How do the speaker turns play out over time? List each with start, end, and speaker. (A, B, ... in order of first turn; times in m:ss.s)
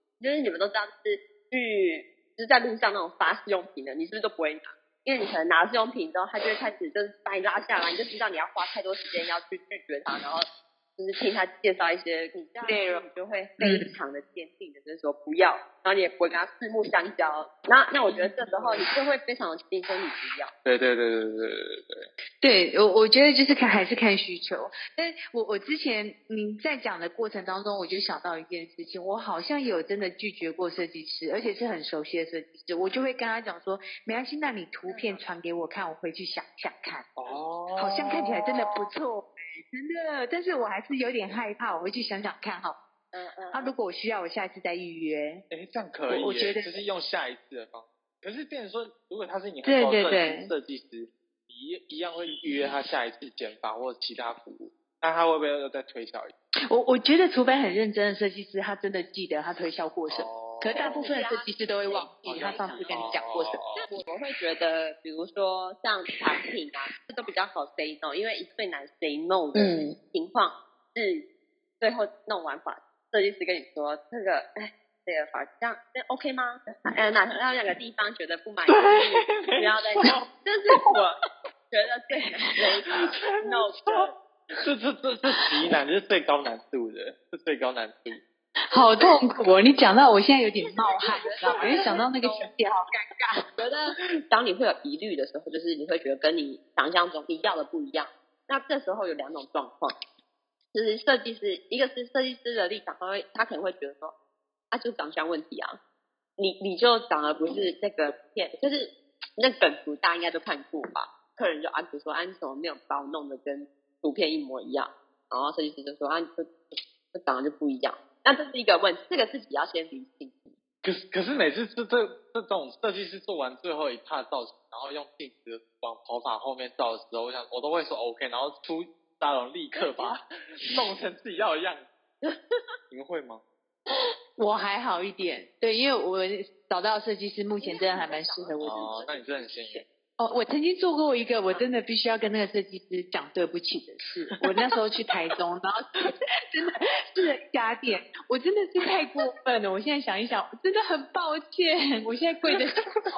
0:00.2-0:20.5 A
0:12.6-0:13.0 B
0:13.6-0:13.9 B
0:18.2-0:18.7 B
0:20.6-0:22.1 C
0:22.4-0:37.1 B
0:34.9-0:35.2 A
0:37.2-0:38.8 C
0:37.8-0:42.8 B
0:43.1-0:43.7 A
0:43.5-0:45.4 B
0:45.5-0:56.3 C
0:46.1-0:46.8 B
0:49.6-0:50.5 B
0:56.7-1:03.6 B
1:00.1-1:01.2 C
1:00.7-1:03.2 A
1:02.3-1:03.8 C
1:03.8-1:11.2 A
1:09.6-1:10.0 B
1:11.8-1:21.2 A
1:18.7-1:20.3 C
1:21.7-1:24.1 A
1:23.0-1:24.1 C
1:24.6-1:28.2 C
1:28.7-1:33.5 B
1:28.7-1:29.1 A
1:30.6-1:32.5 A
1:31.4-1:32.0 C
1:33.6-1:40.0 A
1:40.7-1:44.2 A
1:44.7-1:45.8 A
1:46.4-2:00.6 A
2:00.8-2:11.9 C
2:09.7-2:10.1 A
2:12.9-2:13.4 C
2:14.4-2:18.8 B
2:17.6-2:19.9 A
2:18.6-2:19.8 C
2:20.2-2:32.9 B
2:21.5-2:21.8 A